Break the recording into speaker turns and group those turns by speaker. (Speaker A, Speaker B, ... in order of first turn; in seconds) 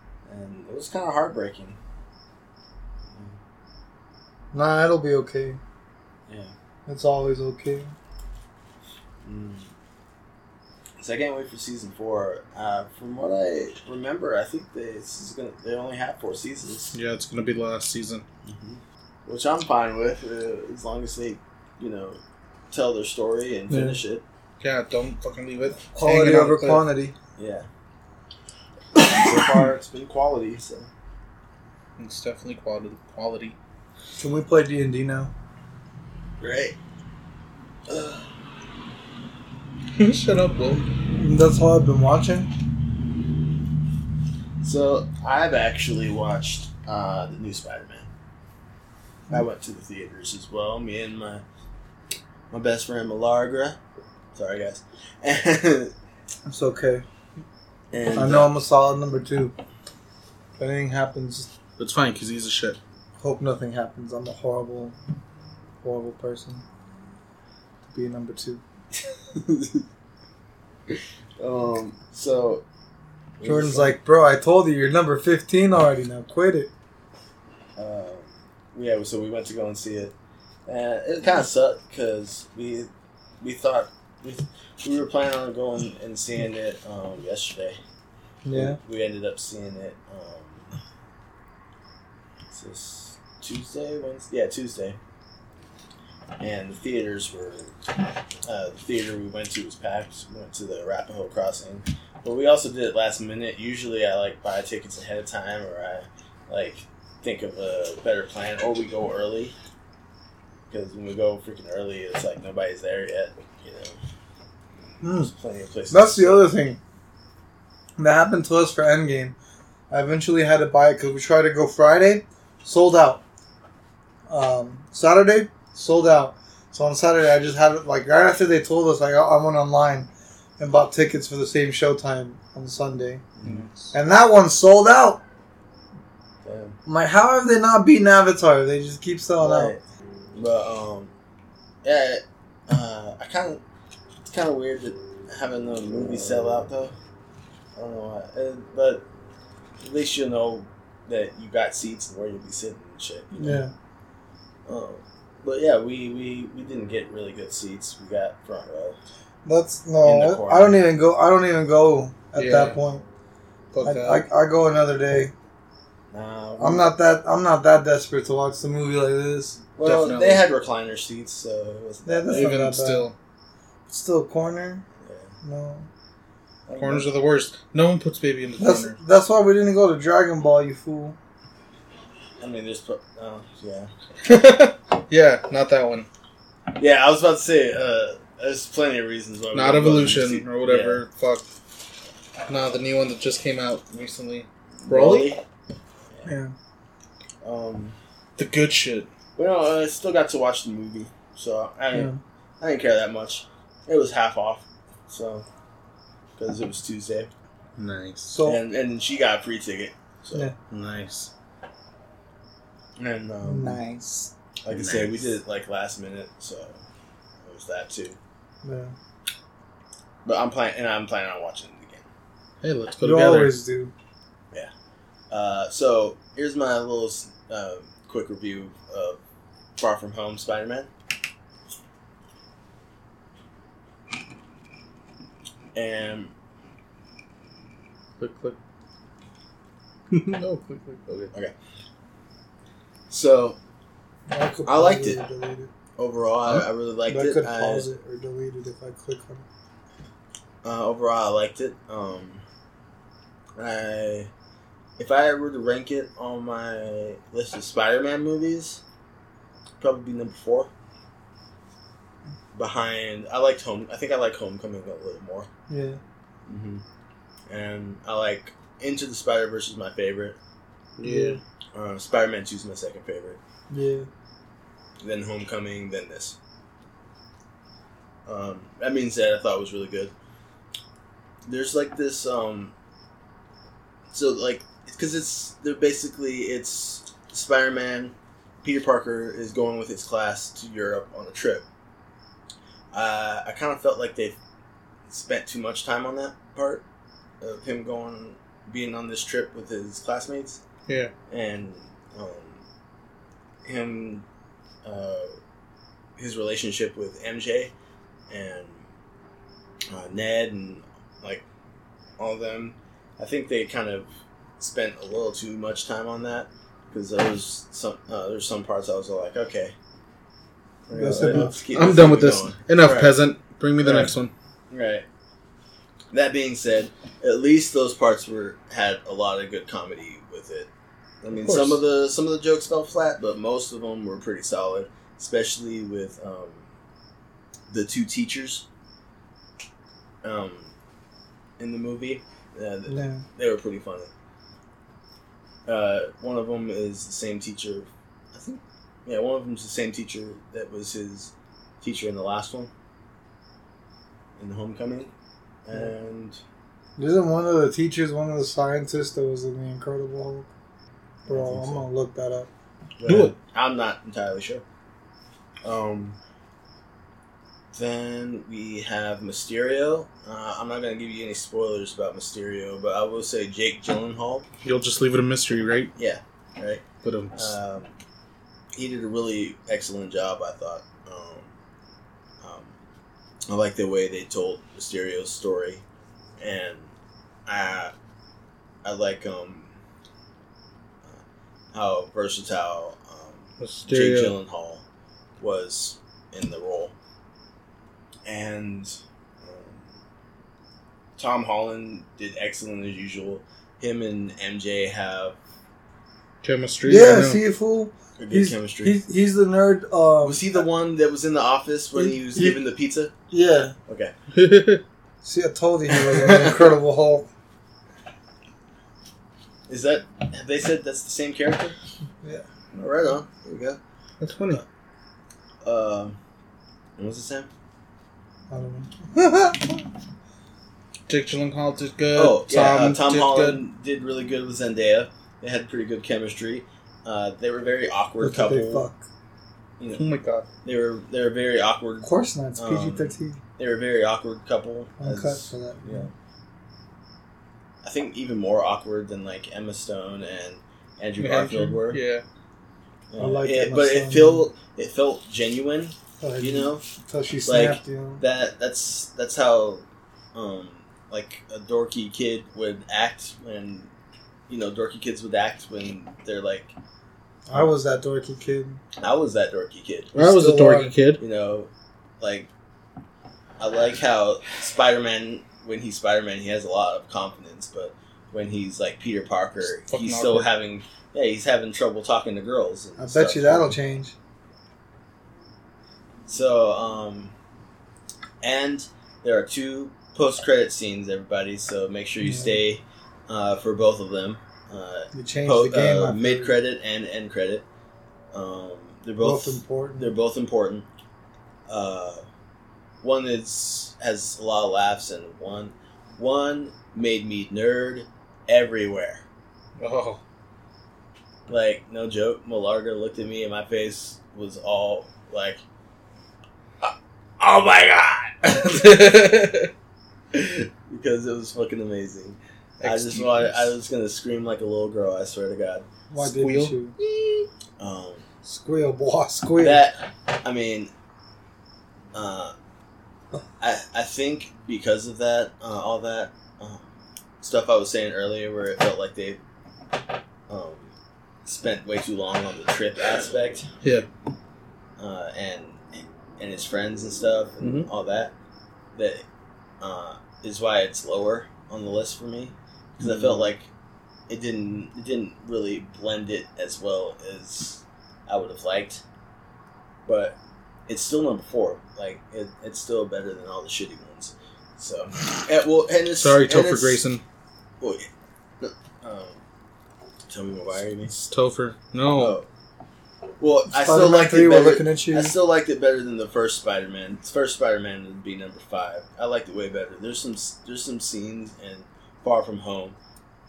Speaker A: 0.2-1.8, 3.0-3.4, 6.3-6.5, 9.2-9.7, 11.0-16.9, 18.4-22.2, 22.7-24.2, 27.4-27.7, 29.1-30.9, 36.4-36.8, 37.9-38.2, 44.6-48.1, 49.3-51.4, 52.5-53.8, 54.3-55.9, 57.9-58.5, 68.9-69.8, 70.9-72.6, 73.4-74.0, 77.8-80.1, 80.7-82.9, 83.4-87.8, 88.5-90.8, 92.5-95.0, 96.4-97.7, 98.4-109.5, 110.7-114.0, 115.2-116.4, 133.4-133.7, 136.4-136.8, 139.4-139.8, 140.3-141.1, 141.8-143.6, 144.2-146.9, 147.8-149.0, 149.8-153.5, 154.7-159.0, 160.0-160.8, 166.1-166.9, 169.8-172.4, 175.0-175.3, 176.7-177.1, 182.4-183.9, 186.8-191.0, 194.8-195.4, 197.4-198.0, 199.3-205.4, 206.4-207.3, 208.4-210.5, 213.0-213.8, 214.6-216.8, 217.4-218.2, 220.2-222.1, 225.3-229.2, 229.8-230.9, 235.7-236.3, 243.1-243.6, 244.7-245.2, 246.0-247.9, 250.6-252.4, 253.6-254.3, 255.0-258.8, 259.8-260.7, 262.5-265.5, 266.5-266.8, 267.5-270.4, 271.7-273.4, 275.0-276.4, 278.3-280.1, 281.5-282.7, 284.1-291.7, 292.9-294.4, 295.1-296.8, 297.4-300.6, 301.3-302.6, 303.6-304.2, 304.8-305.3, 306.2-307.7, 308.3-308.8, 309.9-311.4, 312.2-319.7, 320.9-323.1, 323.8-324.1, 324.7-325.1, 326.1-330.7, 331.2-336.7, 337.7-338.6, 340.2-340.7, 341.6-344.1, 345.6-352.7, 354.4-355.1, 355.6-356.4, 361.3-361.9, 363.0-364.6, 365.6-366.2, 367.7-374.5, 375.9-377.9, 378.7-381.5, 382.4-382.7, 383.5-385.8, 386.4-386.9, 387.4-387.9, 388.8-389.7, 391.7-394.8, 395.4-396.9, 398.2-399.9, 401.1-405.4, 408.2-409.0, 410.2-413.1, 413.9-414.1, 415.9-416.8, 419.7-421.8, 422.7-423.8, 425.6-426.2, 427.0-427.5, 432.1-438.9, 439.8-440.0, 440.6-446.1, 447.8-452.0, 453.1-456.9, 457.4-463.9, 464.5-466.7, 469.0-470.1, 471.2-471.7, 472.2-472.5, 473.6-483.7, 486.2-487.3, 488.4-497.6, 498.3-500.9, 501.7-502.2, 503.0-509.2, 511.5-515.6, 516.8-519.4, 520.3-525.9, 527.8-528.2, 529.6-530.9, 532.1-532.5, 533.6-539.4, 540.5-540.9, 541.4-543.7, 545.0-548.3, 548.9-549.2, 549.8-553.7, 554.3-559.0, 560.0-567.0, 567.8-568.1, 568.6-569.4, 570.3-571.1, 572.1-572.5, 573.4-583.0
Speaker B: 4.5-5.6, 6.8-7.9, 23.7-24.0, 25.9-27.1, 34.2-35.3, 41.1-42.5, 56.5-57.0, 58.1-59.5, 60.6-61.5, 63.2-65.0, 65.8-66.6, 67.8-68.6, 73.4-76.7, 88.4-88.8, 115.0-115.3, 115.9-116.8, 118.0-119.3, 119.9-123.2, 124.3-133.2, 133.9-135.2, 136.8-139.7, 153.3-153.7, 159.4-163.0, 163.8-165.3, 166.6-169.6, 172.1-173.1, 173.9-174.8, 175.4-175.9, 178.6-181.2, 196.2-196.5, 201.9-202.2, 208.3-208.6, 213.4-214.3, 218.6-218.9, 223.0-223.9, 244.3-245.7, 247.1-249.4, 265.7-266.0, 271.0-271.4, 273.7-274.1, 320.9-321.6, 342.9-343.2, 357.0-360.5, 361.3-362.5, 406.9-410.6, 412.0-412.6, 413.3-413.7, 415.2-417.3, 428.5-429.8, 438.2-439.1, 442.0-443.4, 445.0-446.1, 453.2-454.4, 456.2-458.2, 467.5-468.8, 470.1-470.9, 483.0-484.1, 492.2-492.6, 495.1-496.5, 499.2-500.1, 526.1-526.9, 528.4-529.9, 573.7-575.4
Speaker C: 16.9-18.2, 24.6-26.8, 32.0-33.5, 40.0-40.8, 61.8-62.8, 133.4-133.9, 162.4-162.8, 163.7-164.2, 169.8-170.4, 172.3-173.1, 176.7-179.0, 184.2-186.1, 189.5-191.4, 192.5-195.3, 198.4-199.1, 207.8-208.3, 210.7-211.3, 214.7-215.3, 222.6-223.6, 238.2-238.6, 240.1-241.3, 271.0-271.4, 300.9-301.1, 321.1-324.3, 331.3-331.8, 363.1-363.3, 374.6-375.9, 377.0-377.5, 393.6-394.3, 406.4-407.4, 414.3-414.8, 424.2-424.6, 431.1-433.6, 439.9-440.5, 451.2-452.2, 470.1-471.2, 479.8-480.5, 509.8-510.2, 518.5-519.7, 522.8-523.7, 526.1-527.4, 547.6-547.9, 553.0-553.5, 566.2-567.2, 571.1-572.4